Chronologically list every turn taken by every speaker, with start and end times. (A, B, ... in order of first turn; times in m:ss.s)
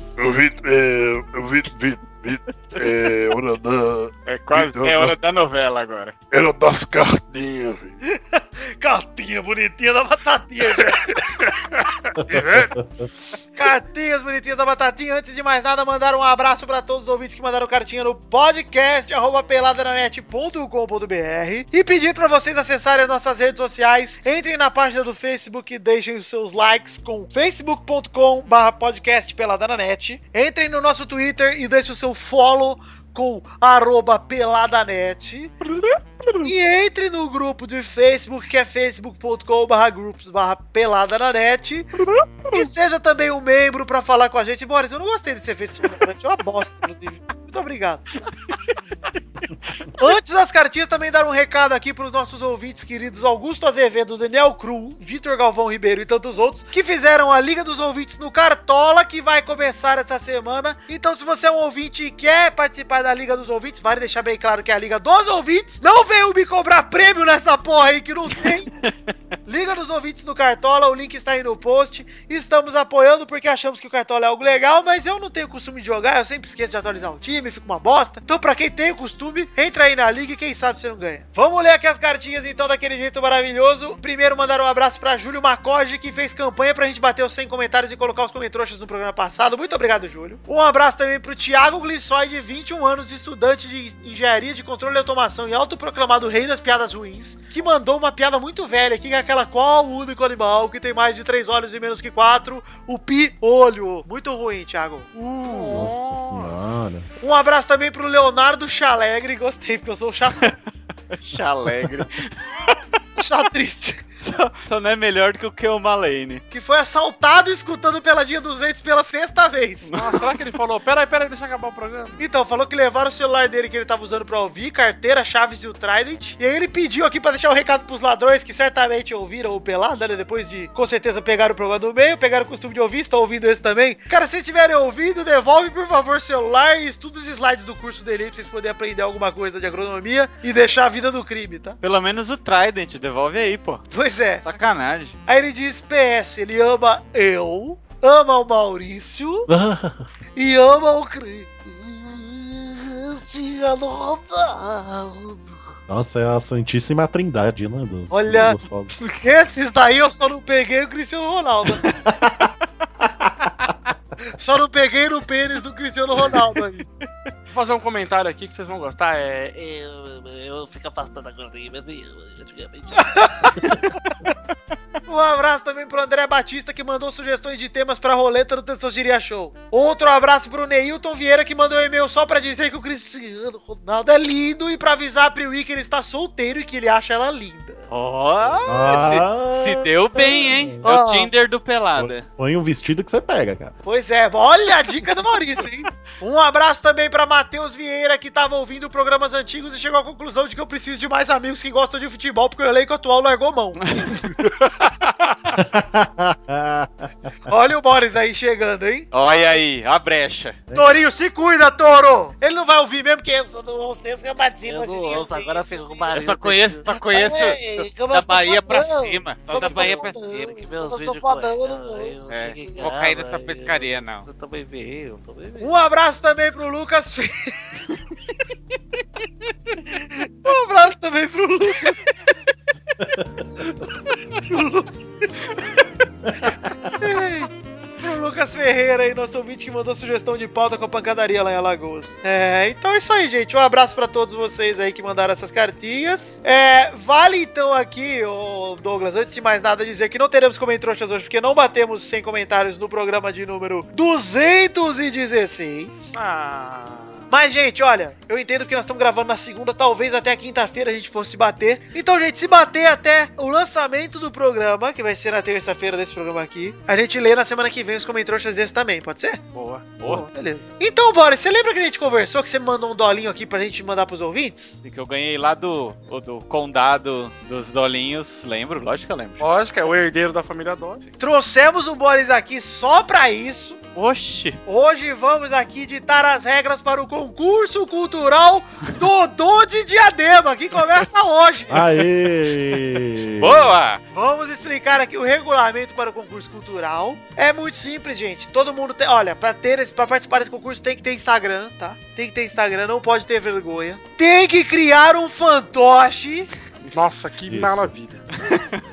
0:00.2-0:05.2 A
0:04.3-0:06.1 B
0:06.3-0:08.0 A
0:08.1-0:11.2 C
0:10.8-0:12.8 A
0:12.3-0:13.1 D
0:13.6-0:35.5 C
0:35.7-0:36.5 B
0:36.4-0:41.9 C
0:42.5-0:48.1 C
0:50.0-1:08.7 C
1:09.5-1:45.2 C
1:45.4-1:46.2 B
1:45.7-1:47.1 D
1:47.2-1:50.6 C
1:51.2-1:52.3 B
1:53.2-1:54.0 C
1:54.2-1:56.4 B
1:56.5-2:00.0 C
2:00.0-2:02.2 E
2:02.2-2:21.8 C
2:21.8-2:23.8 B
2:23.9-2:24.5 C
2:24.4-2:25.2 B
2:25.3-2:29.5 C
2:29.5-2:30.1 D
2:30.4-2:35.4 C
2:35.9-2:39.0 D
2:38.1-2:38.6 C
2:39.2-2:41.9 C
2:42.1-2:42.5 D
2:43.0-2:43.3 D
2:44.3-2:46.9 C
2:47.5-2:49.6 E
2:49.6-2:53.1 F
2:53.0-2:53.7 C
2:55.1-3:07.8 C
3:07.9-3:12.2 B
3:08.7-3:10.8 D
3:10.8-3:11.4 C
3:12.0-3:13.7 D
3:13.8-3:24.2 C
3:23.9-3:24.4 B
3:25.5-3:27.1 D
3:27.5-3:29.1 C
3:29.1-3:30.6 B
3:30.7-3:31.0 D
3:30.7-3:36.2 C
3:34.6-3:45.8 F
3:36.2-3:40.6 B
3:37.0-3:37.3 C
3:38.3-3:38.9 C
3:39.5-3:42.2 C
3:42.3-3:44.3 B
3:45.6-3:47.6 C
3:49.8-3:52.2 C
3:54.3-3:55.6 C
3:56.3-3:56.9 D
3:57.0-4:16.2 C
4:16.2-4:17.2 E
4:17.3-4:29.4 C
4:29.6-4:30.3 B
4:30.0-4:34.8 C
4:34.8-4:39.4 B
4:39.4-4:41.1 E
4:41.2-4:43.8 C
4:44.0-4:44.6 B
4:44.7-4:51.9 C
4:51.7-4:53.8 D
4:53.4-4:54.0 B
4:54.1-5:06.5 C
5:06.9-5:08.2 E
5:07.5-5:07.9 D
5:08.5-5:08.8 B